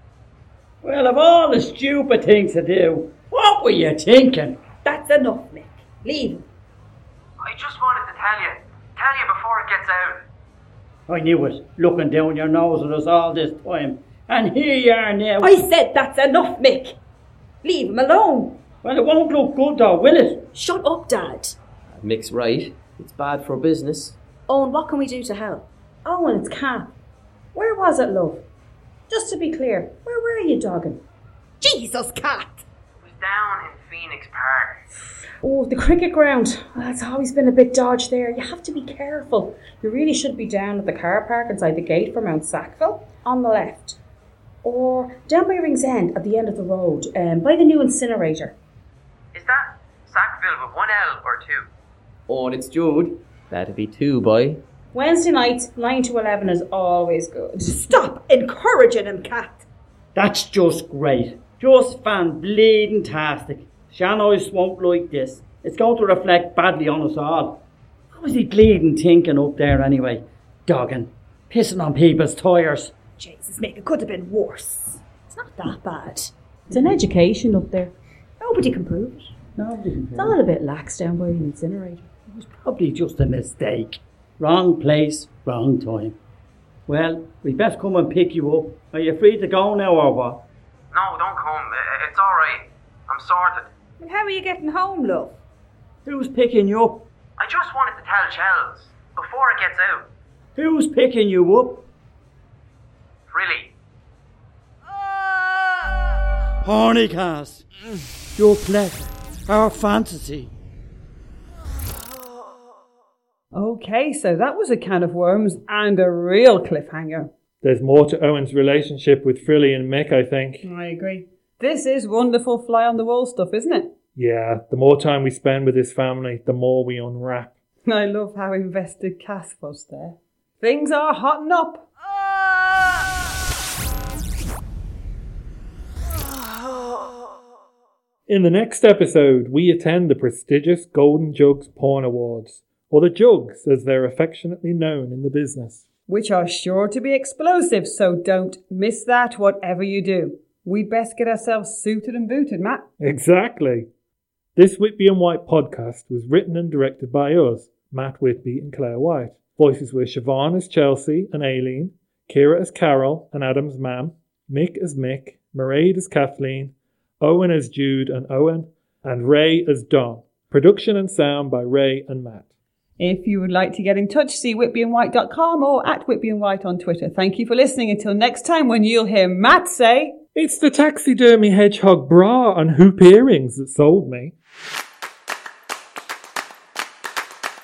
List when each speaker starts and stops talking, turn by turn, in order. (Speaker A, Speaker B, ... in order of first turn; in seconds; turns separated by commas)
Speaker A: 0.8-4.6, Speaker B: 4.8-6.5, Speaker C: 7.4-10.2, Speaker A: 11.1-15.7, Speaker B: 15.4-16.9, Speaker B: 17.6-18.6, Speaker A: 18.8-20.5, Speaker D: 20.5-21.6, Speaker E: 21.9-24.1, Speaker D: 24.5-25.7, Speaker F: 26.1-26.9, Speaker F: 27.6-28.4, Speaker F: 29.1-31.0, Speaker B: 31.6-32.6, Speaker C: 33.0-34.8, Speaker F: 35.4-44.0, Speaker F: 44.6-48.5, Speaker C: 49.3-51.7, Speaker E: 52.3-54.6, Speaker F: 54.9-57.9, Speaker B: 57.7-59.6, Speaker A: 60.1-67.6, Speaker A: 68.1-73.0, Speaker B: 73.2-75.0, Speaker D: 75.3-76.3, Speaker F: 76.7-77.9, Speaker B: 78.4-79.3, Speaker A: 79.6-80.4, Speaker F: 80.1-82.1, Speaker A: 82.3-86.2, Speaker A: 86.9-90.4, Speaker C: 90.9-93.7, Speaker B: 94.0-95.4, Speaker A: 96.0-97.1, Speaker C: 97.4-100.1, Speaker A: 100.6-101.9, Speaker C: 103.3-103.7, Speaker A: 106.6-107.6, Speaker A: 108.4-110.5, Speaker G: 113.5-117.3, Speaker H: 117.6-120.7, Speaker G: 120.6-123.9, Speaker H: 124.2-127.5, Speaker G: 127.8-131.9, Speaker H: 138.3-145.8, Speaker G: 146.1-152.8, Speaker H: 153.0-153.9, Speaker H: 154.6-172.5, Speaker G: 173.0-180.2, Speaker H: 180.3-184.3